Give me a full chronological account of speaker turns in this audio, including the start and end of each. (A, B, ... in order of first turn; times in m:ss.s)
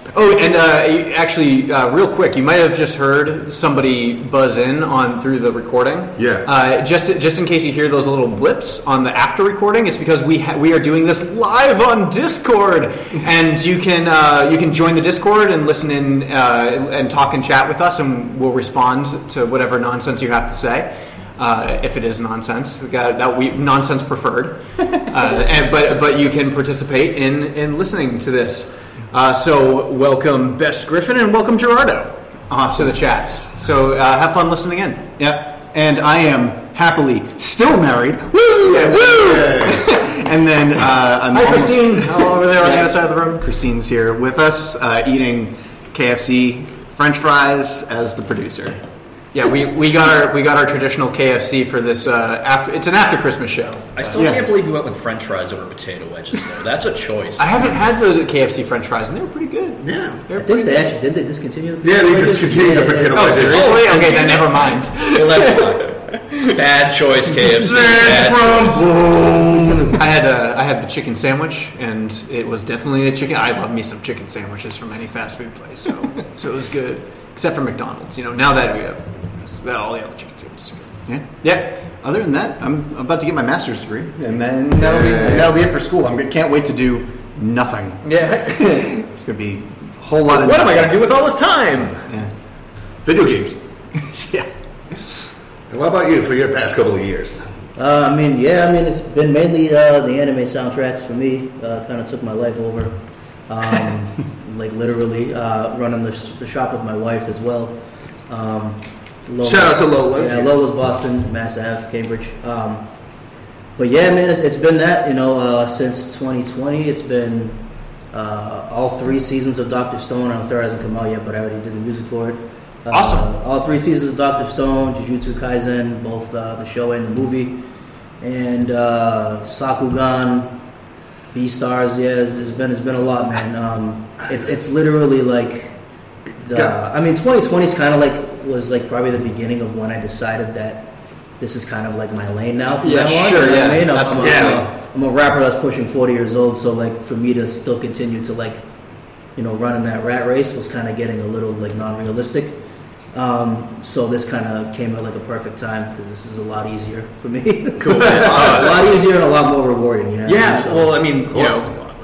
0:00.1-0:32.1 A
0:06.2-0:06.5 B
0:32.5-0:33.0 C
0:32.7-0:35.1 A
0:35.2-0:48.8 C
0:38.7-0:39.7 A
0:39.1-0:39.9 B
0:41.3-0:43.4 A
0:49.3-0:54.2 A
0:54.0-0:57.6 D
0:54.2-0:54.5 C
0:57.4-1:00.8 A
0:59.8-1:00.2 B
1:00.4-1:03.4 E
1:01.8-1:04.2 B
1:03.1-1:05.8 A
1:04.0-1:04.3 D
1:05.1-1:08.8 D
1:07.6-1:10.0 B
1:09.9-1:21.7 A
1:21.1-1:28.0 C
1:24.7-1:25.6 B
1:28.0-1:29.0 A
1:28.6-1:30.9 C
1:30.2-1:32.0 A
1:33.0-1:33.6 B
1:34.1-1:34.5 C
1:35.7-1:37.4 B
1:37.8-1:52.9 E
1:49.4-1:50.5 B
1:53.8-2:07.6 E
2:02.9-2:03.3 A
2:08.2-2:10.6 E
2:11.3-2:15.8 E
2:16.4-2:28.6 E
2:22.8-2:24.6 A
2:24.2-2:24.6 B
2:29.4-2:32.6 E
2:33.1-2:40.9 E
2:37.8-2:38.8 A
2:40.3-2:41.5 C
2:40.7-2:41.8 A
2:41.3-2:41.7 B